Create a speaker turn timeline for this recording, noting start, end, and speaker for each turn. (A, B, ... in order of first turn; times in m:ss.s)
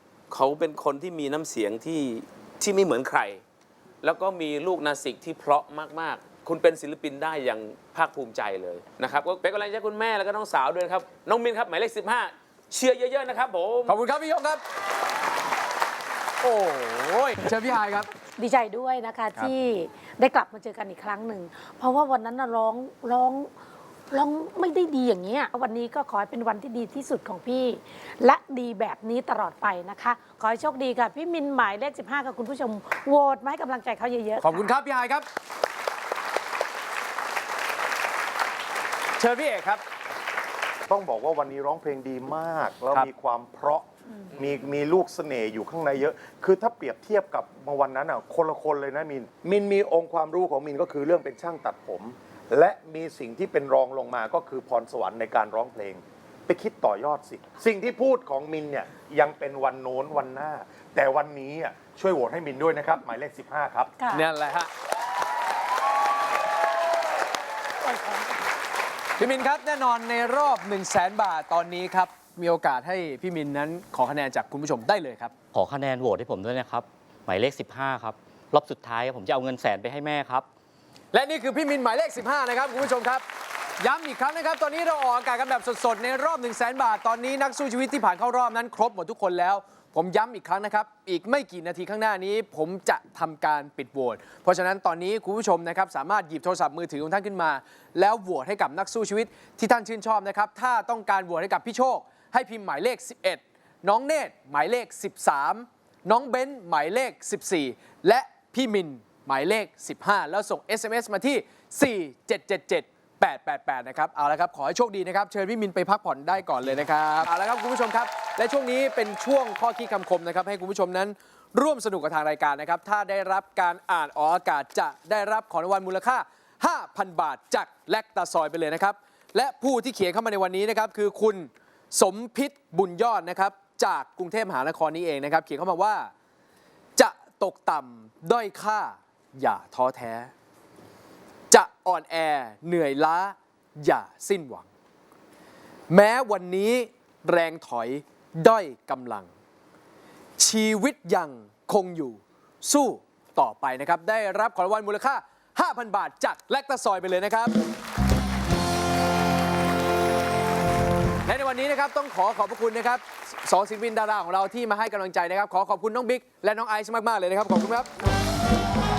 0:00.3-0:03.4 A
0:04.0-0:13.9 A
0:13.9-0:14.6 B
0:16.4-0:18.1 B
0:18.4-0:23.5 C
0:24.1-0:34.7 C
0:34.4-0:35.3 B
0:39.2-0:39.8 B
0:40.9-1:03.9 D
1:04.1-1:04.7 B
1:07.8-1:08.5 C
1:09.2-1:15.3 B
1:15.5-1:20.5 E
1:21.1-1:23.2 B
1:23.8-2:16.1 B
2:17.0-2:20.3 B
2:21.5-2:24.7 B
2:25.9-2:29.3 B
2:30.4-2:37.5 B
2:41.2-2:47.9 B